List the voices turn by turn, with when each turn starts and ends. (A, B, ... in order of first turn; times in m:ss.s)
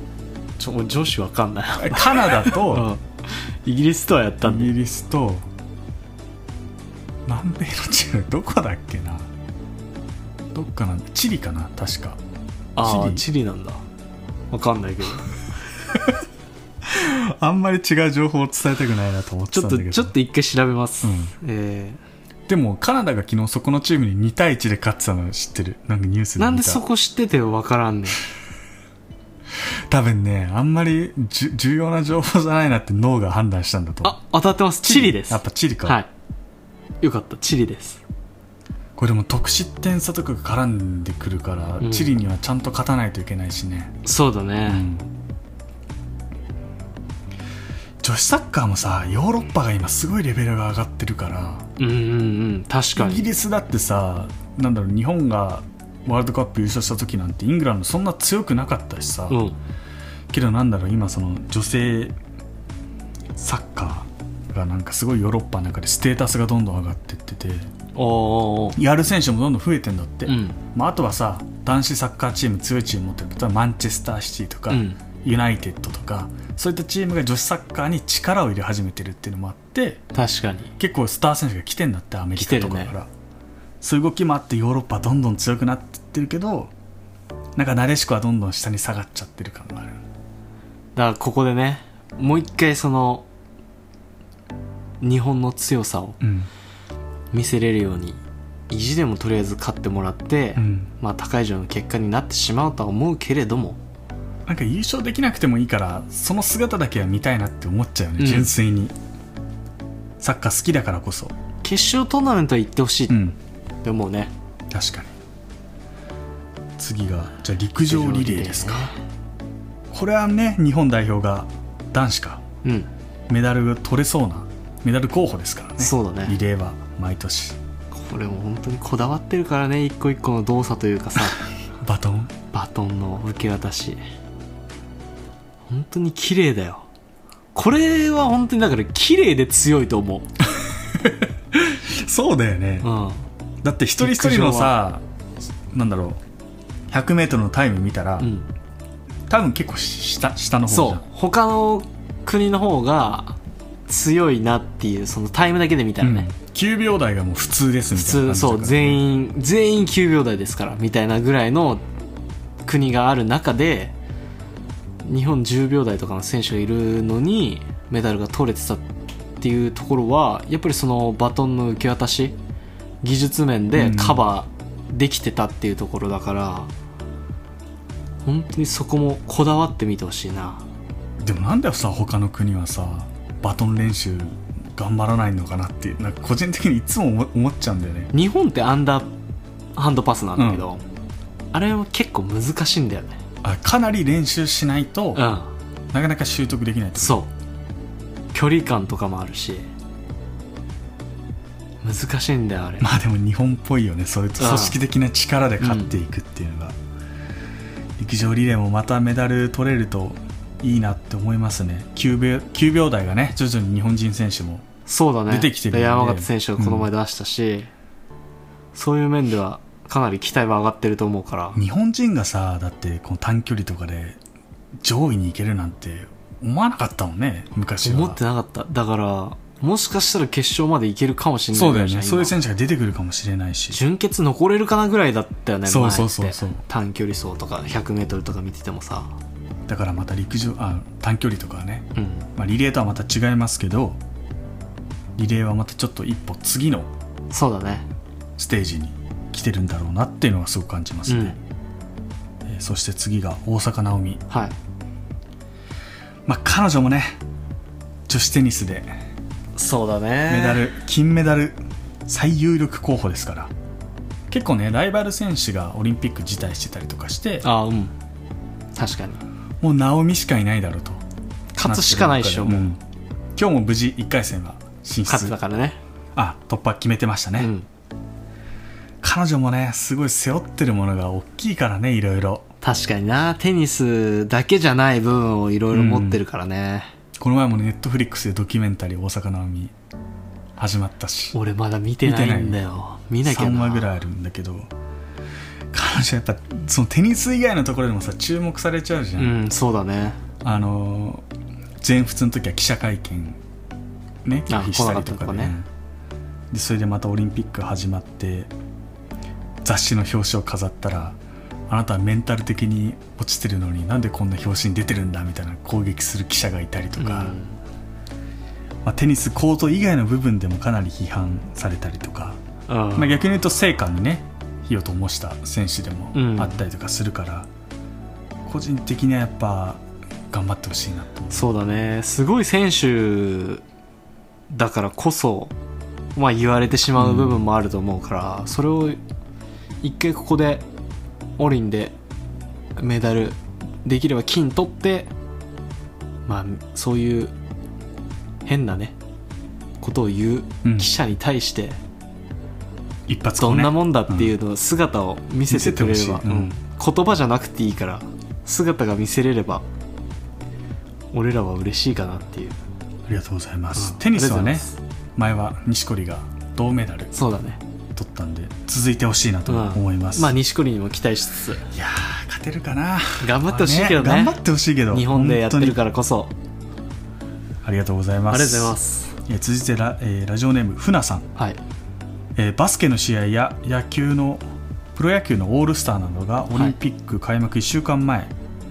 0:00.6-0:04.7 A
0:01.7-0:02.9 B
0:04.4-0:05.5 B
0:07.3-0:09.3 B
0:10.6-0:12.2 B
0:12.8-0:13.8 A
0:12.8-0:13.2 B
0:14.5-0:15.3 A
0:15.9-0:16.2 B
0:16.9-0:20.2 B
0:19.5-0:22.0 A
0:21.0-0:21.3 B
0:22.5-0:26.8 B
0:26.4-0:28.2 A
0:29.9-0:34.2 B
0:34.0-0:36.1 A
0:34.8-0:36.0 B
0:37.0-0:38.0 A
0:39.0-0:44.0 B
0:41.8-0:42.1 A
0:44.0-0:44.9 A
0:44.7-0:45.1 B
0:48.0-0:51.7 B
0:51.8-0:53.3 A
0:53.0-0:59.4 B
0:59.3-0:59.6 A
1:00.3-1:02.1 B
1:03.4-1:07.7 B
1:08.0-1:08.8 A
1:08.8-1:20.0 B
1:10.3-1:10.6 A
1:14.7-1:15.0 A
1:20.1-1:20.7 A
1:20.8-1:23.1 B
1:22.4-1:22.9 A
1:23.8-1:26.7 B
1:27.6-1:30.0 B
1:31.0-1:33.3 A
1:35.0-1:36.2 A
1:36.2-1:36.5 B
1:37.3-1:43.8 A
1:40.6-1:40.9 B
1:44.5-1:48.9 B
1:48.2-1:48.5 A
1:50.2-1:51.4 B
1:51.6-1:53.2 A
1:53.1-1:53.4 B
1:53.8-1:54.3 A
1:54.7-1:55.1 B
1:56.8-1:58.9 B
1:57.9-1:59.0 A
1:59.9-2:02.4 B
2:02.6-2:02.9 A
2:03.3-2:07.6 B
2:05.8-2:06.4 A
2:07.9-2:11.4 A
2:11.8-2:12.3 B
2:12.5-2:14.0 A
2:15.7-2:16.9 A
2:17.5-2:20.3 A
2:21.0-2:22.9 B
2:22.8-2:23.3 A
2:23.6-2:25.0 B
2:24.0-2:24.8 A
2:25.7-2:26.2 B
2:26.9-2:28.3 B
2:28.2-2:28.5 A
2:29.3-2:31.0 B
2:30.7-2:36.3 A
2:36.0-2:39.0 B
2:38.0-2:41.8 A
2:42.6-2:44.0 A
2:45.0-2:48.8 A
2:49.4-2:52.4 A
2:53.0-2:56.7 A
2:53.8-2:54.3 B
2:58.2-3:00.6 A
3:01.2-3:08.1 B
3:08.1-3:09.1 A
3:09.8-3:10.8 A
3:10.4-3:10.6 B
3:11.5-3:13.2 A
3:13.4-3:15.3 B
3:15.2-3:15.5 A
3:15.9-3:17.2 B
3:17.0-3:17.3 A
3:18.3-3:19.7 A
3:21.8-3:22.9 A
3:22.8-3:26.8 B
3:24.4-3:24.8 A
3:25.6-3:25.9 A
3:28.0-3:34.7 B
3:34.9-3:37.7 A
3:35.3-3:36.9 B
3:38.7-3:41.6 A
3:41.6-3:44.2 B
3:44.8-3:48.2 B
3:47.8-3:52.4 A
3:51.5-3:53.8 B
3:53.7-3:59.2 A
3:55.7-3:56.6 B
3:59.7-4:04.0 B
4:02.0-4:02.3 A
4:05.2-4:06.9 B
4:07.3-4:07.9 A
4:08.4-4:11.4 B
4:11.1-4:11.4 A
4:12.5-4:14.2 B
4:14.3-4:14.6 A
4:16.3-4:17.2 B
4:18.1-4:18.9 B
4:19.6-4:20.7 A
4:20.3-4:23.5 B
4:24.3-4:27.5 B
4:27.4-4:27.9 A
4:28.7-4:29.2 A
4:29.6-4:31.0 B
4:31.6-4:32.7 A
4:31.6-4:32.8 B
4:33.4-4:35.4 B
4:35.1-4:35.8 A
4:36.2-4:37.5 B
4:37.4-4:37.7 A
4:39.0-4:42.5 B
4:42.6-4:46.9 A
4:45.7-4:46.2 B
4:47.2-4:49.7 B
4:50.6-4:51.4 B
4:51.3-4:53.9 A
4:52.0-4:52.6 B
4:53.2-4:54.7 B
4:55.7-4:59.4 B
4:59.2-5:00.2 A
5:00.4-5:01.2 B
5:01.8-5:03.4 B
5:04.2-5:05.7 B
5:04.5-5:05.6 A
5:06.5-5:08.5 B
5:09.6-5:11.2 B
5:11.7-5:17.4 B
5:17.0-5:17.6 A
5:18.8-5:22.4 B
5:22.7-5:23.3 A
5:23.0-5:27.5 B
5:26.1-5:26.6 A
5:28.5-5:31.5 B
5:31.3-5:33.6 A
5:34.5-5:35.6 A
5:36.2-5:39.0 A
5:37.0-5:37.5 B
5:39.8-5:40.7 A
5:41.4-5:42.0 A
5:42.8-5:45.1 A
5:46.3-5:47.3 A
5:48.4-5:49.0 A
5:49.8-5:51.8 A
5:50.6-5:50.9 B
5:53.1-5:54.3 B
5:53.4-5:59.6 A
5:55.5-5:56.6 B
6:01.1-6:02.6 A
6:03.1-6:07.2 B
6:03.8-6:04.7 A
6:07.1-6:07.6 A
6:08.0-6:10.4 B
6:09.5-6:11.6 A
6:11.7-6:15.8 B
6:13.2-6:14.4 A
6:14.9-6:16.3 A
6:17.6-6:21.3 B
6:18.3-6:19.2 A
6:22.4-6:24.4 B
6:25.0-6:28.3 B